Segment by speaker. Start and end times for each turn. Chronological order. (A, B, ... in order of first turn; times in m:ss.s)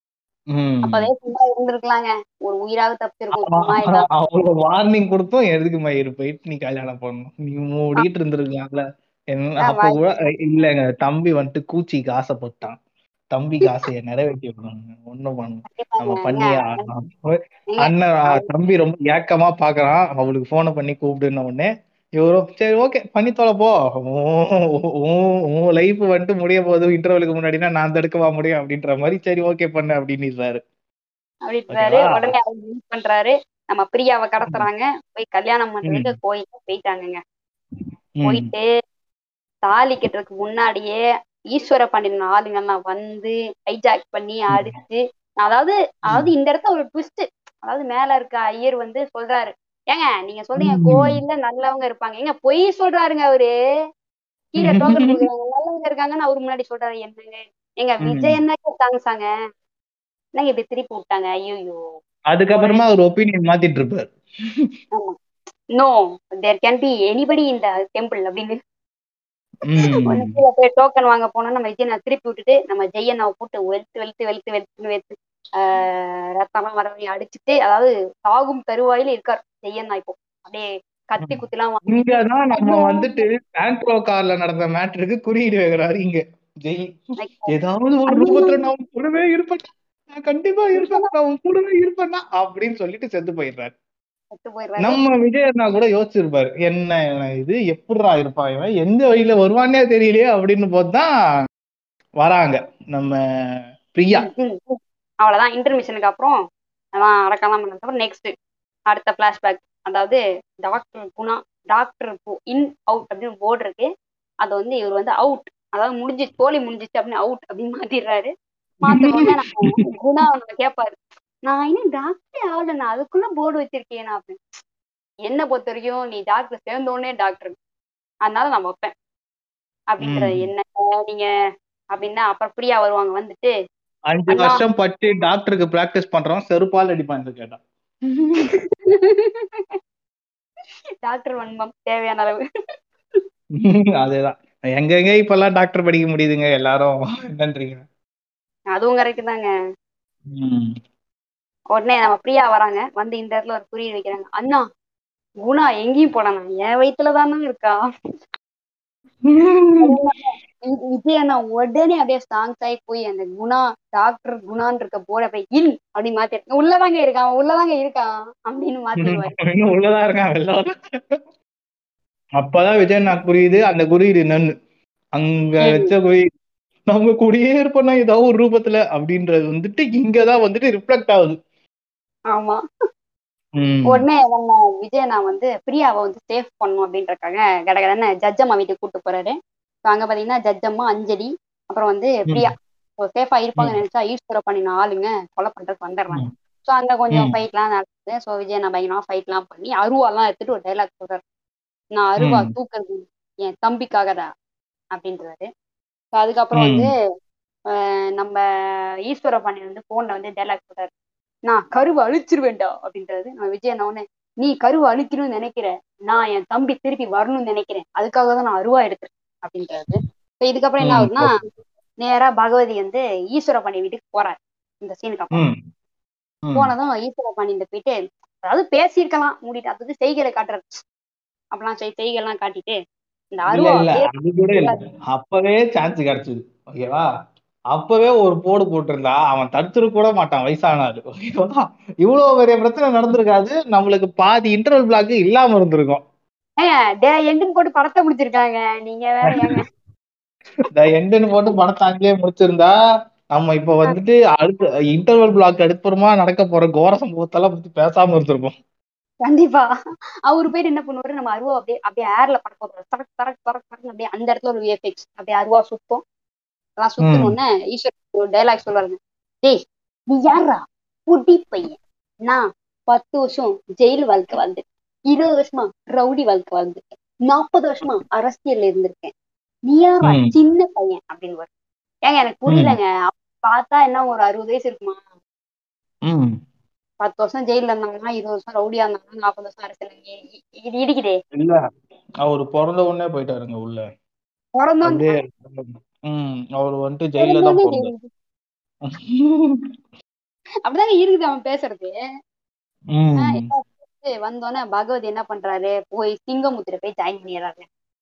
0:00.5-0:01.1 A
0:00.8-0:04.1 B
0:03.4-0:08.8 A
0:09.3-0:12.8 A
0:09.6-0:10.1 B
0:13.3-0:30.6 A
0:15.7-0:16.9 B
0:17.7-0:18.4 B
0:31.4-0:37.2 B
0:31.7-0:32.3 A
0:35.8-0:36.1 A
0:38.2-0:38.5 A
0:38.2-0:38.6 B
0:39.7-0:41.0 B
0:41.5-0:53.5 B
0:50.6-0:51.2 A
0:54.5-0:59.2 B
0:54.6-0:55.2 A
0:58.0-0:58.4 A
1:00.4-1:01.8 B
1:02.3-1:04.1 A
1:02.5-1:02.8 B
1:05.7-1:08.6 B
1:09.7-1:10.4 A
1:09.8-1:23.1 B
1:21.2-1:26.9 A
1:27.2-1:27.5 B
1:27.5-1:33.7 A
1:28.1-1:28.6 B
1:30.8-1:31.1 B
1:34.3-1:35.0 B
1:34.8-1:41.1 A
1:42.2-1:43.2 A
1:43.9-1:44.3 A
1:44.2-1:46.3 B
1:46.9-1:48.3 B
1:48.9-1:53.8 B
1:54.4-1:58.3 B
1:58.8-2:04.4 B
1:58.9-1:59.8 A
2:05.3-2:07.6 B
2:08.2-2:08.9 B
2:09.9-2:11.3 B
2:10.0-2:10.5 A
2:11.9-2:13.5 B
2:14.1-2:18.5 A
2:14.3-2:14.6 B
2:18.7-2:19.8 B
2:21.0-2:22.4 B
2:23.6-2:27.8 A
2:28.7-2:29.5 B
2:30.3-2:30.7 A
2:31.7-2:34.6 B
2:35.4-2:37.8 B
2:39.3-2:40.0 A
2:39.8-2:49.3 B
2:49.0-2:51.2 A
2:52.4-2:54.5 A
2:55.2-2:56.2 A
2:55.6-2:55.9 B
2:56.9-3:01.4 A
3:02.3-3:02.6 B
3:03.6-3:04.0 A
3:03.9-3:21.2 B
3:21.9-3:24.3 B
3:22.2-3:22.5 A
3:24.9-3:25.5 B
3:26.1-3:26.9 B
3:26.6-3:26.9 A
3:27.7-3:28.4 B
3:29.1-3:30.9 B
3:31.5-3:41.3 B
3:40.8-3:41.3 A
3:42.0-3:45.4 B
3:46.5-3:50.8 B
3:51.5-3:52.8 B
3:53.3-3:54.8 B
3:53.5-3:57.0 A
3:57.7-4:06.0 A
4:06.6-4:09.6 B
4:10.7-4:12.7 A
4:13.3-4:18.5 A
4:19.2-4:19.7 B
4:20.3-4:26.0 B
4:26.8-4:29.6 B
4:27.0-4:27.3 A
4:30.1-4:39.1 B
4:39.7-4:41.5 B
4:40.0-4:40.3 A
4:42.1-4:45.0 B
4:42.5-4:42.8 A
4:46.0-4:46.4 A
4:47.0-4:51.2 B
4:52.2-4:53.8 A
4:54.6-4:55.1 B
4:54.8-4:57.9 A
4:57.2-4:58.1 B
4:58.8-4:59.6 A
5:00.7-5:01.9 B
5:02.9-5:03.5 A
5:03.2-5:07.6 B